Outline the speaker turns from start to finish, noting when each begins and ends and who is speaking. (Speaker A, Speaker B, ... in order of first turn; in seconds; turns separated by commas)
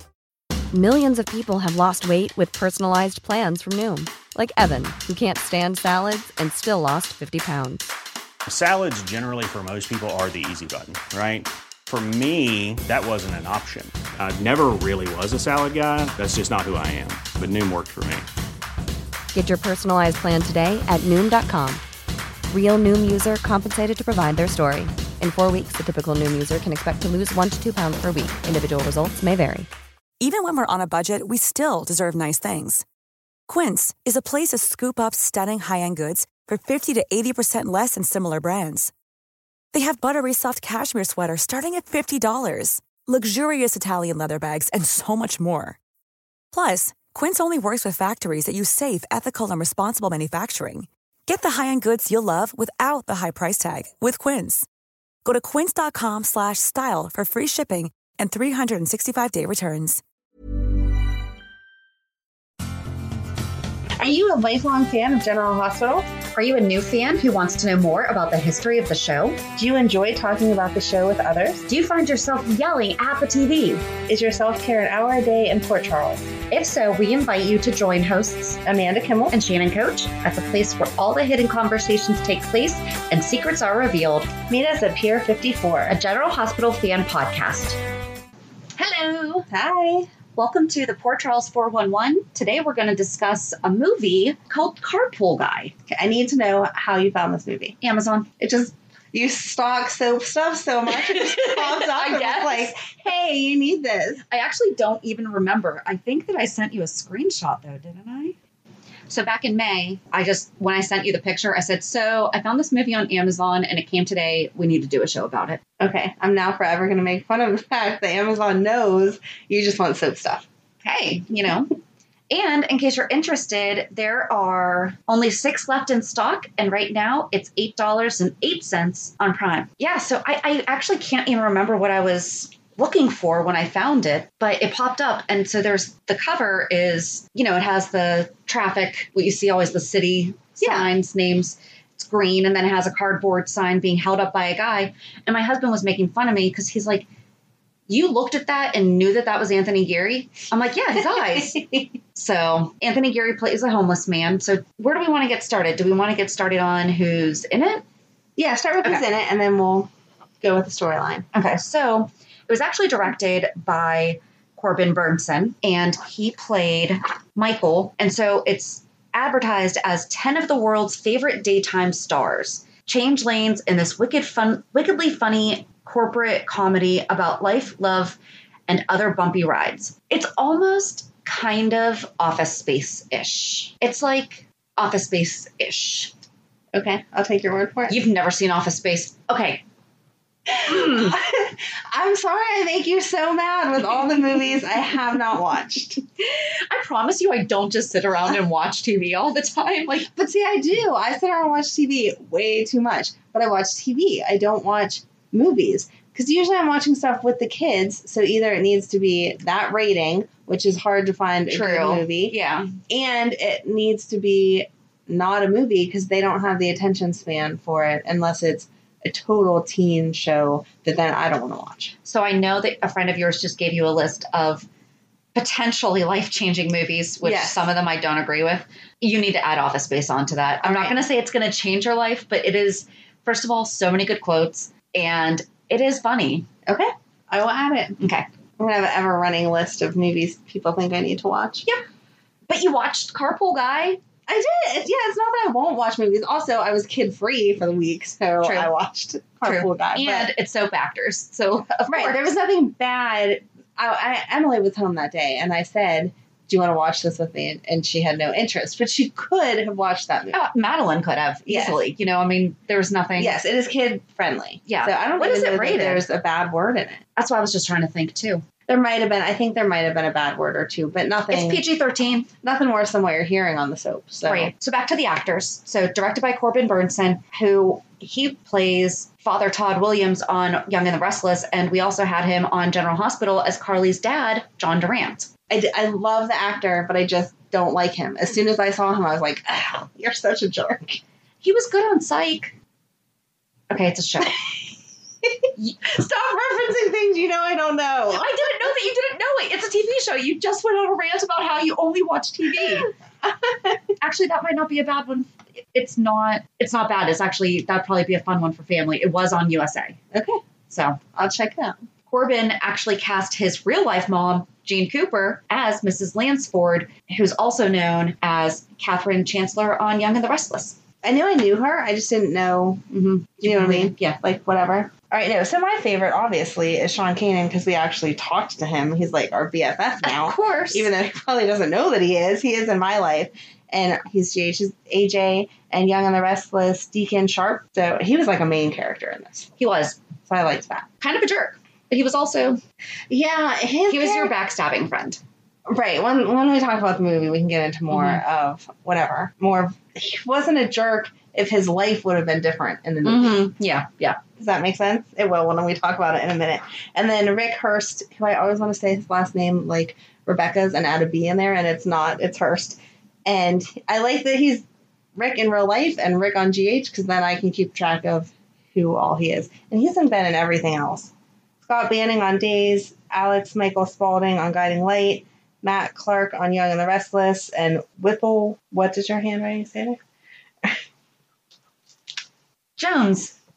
Speaker A: 0.7-7.9, Speaker B: 8.5-18.3, Speaker A: 19.3-21.8, Speaker A: 22.5-29.7, Speaker C: 30.2-32.8, Speaker C: 33.5-38.9, Speaker C: 39.7-45.8, Speaker C: 46.5-54.7, Speaker C: 55.2-60.0, Speaker D: 64.0-66.1, Speaker E: 66.2-69.4, Speaker D: 69.6-71.6, Speaker E: 71.7-73.8, Speaker D: 74.1-76.3, Speaker E: 76.5-78.6, Speaker D: 78.6-79.3, Speaker E: 79.3-84.3, Speaker D: 84.5-86.0, Speaker E: 85.9-87.8, Speaker E: 88.8-89.5, Speaker D: 89.5-90.1, Speaker E: 90.3-95.7, Speaker D: 95.9-97.8, Speaker E: 97.8-98.3, Speaker D: 98.4-104.2, Speaker E: 100.9-102.9, Speaker E: 104.3-108.3, Speaker E: 109.1-115.6, Speaker D: 115.8-120.4, Speaker E: 120.8-121.7, Speaker E: 122.3-147.1, Speaker D: 140.6-140.9, Speaker E: 147.9-157.8, Speaker D: 150.9-151.9, Speaker D: 158.4-159.9, Speaker D: 160.4-161.2, Speaker E: 161.3-186.1, Speaker D: 186.7-188.0, Speaker E: 187.9-189.6, Speaker D: 190.5-196.0, Speaker E: 190.6-191.2, Speaker E: 196.2-200.1, Speaker D: 200.0-212.3, Speaker E: 211.5-212.7, Speaker D: 212.9-221.9, Speaker E: 222.1-224.7, Speaker E: 225.3-236.5, Speaker D: 227.2-227.7, Speaker D: 230.6-230.9, Speaker D: 236.7-238.0, Speaker E: 238.0-238.3, Speaker D: 238.6-241.7, Speaker E: 242.5-244.0, Speaker D: 244.3-250.3, Speaker E: 248.4-248.7, Speaker E: 249.4-252.3, Speaker D: 251.9-260.4, Speaker E: 260.3-263.3, Speaker D: 261.4-261.8, Speaker D: 263.2-267.0, Speaker E: 264.7-266.0, Speaker E: 267.2-268.5, Speaker D: 268.7-271.6, Speaker E: 271.3-272.3, Speaker D: 272.4-274.5, Speaker E: 274.2-285.3, Speaker D: 285.5-291.0, Speaker E: 291.4-292.5, Speaker E: 293.7-294.4, Speaker D: 295.2-298.3, Speaker E: 295.6-296.1, Speaker E: 298.1-302.9, Speaker D: 303.2-303.7, Speaker E: 304.0-310.0, Speaker D: 310.1-310.4, Speaker E: 310.7-311.0, Speaker D: 311.1-311.8, Speaker E: 312.1-320.8, Speaker D: 321.0-322.8, Speaker E: 322.9-324.2, Speaker D: 323.4-339.5, Speaker E: 330.0-330.9, Speaker E: 339.6-340.0, Speaker D: 340.2-340.9, Speaker E: 341.0-342.6, Speaker D: 343.1-344.3, Speaker E: 343.9-345.2, Speaker D: 345.7-353.5, Speaker E: 347.9-348.2, Speaker E: 353.0-354.2, Speaker D: 354.4-380.0, Speaker E: 382.8-383.3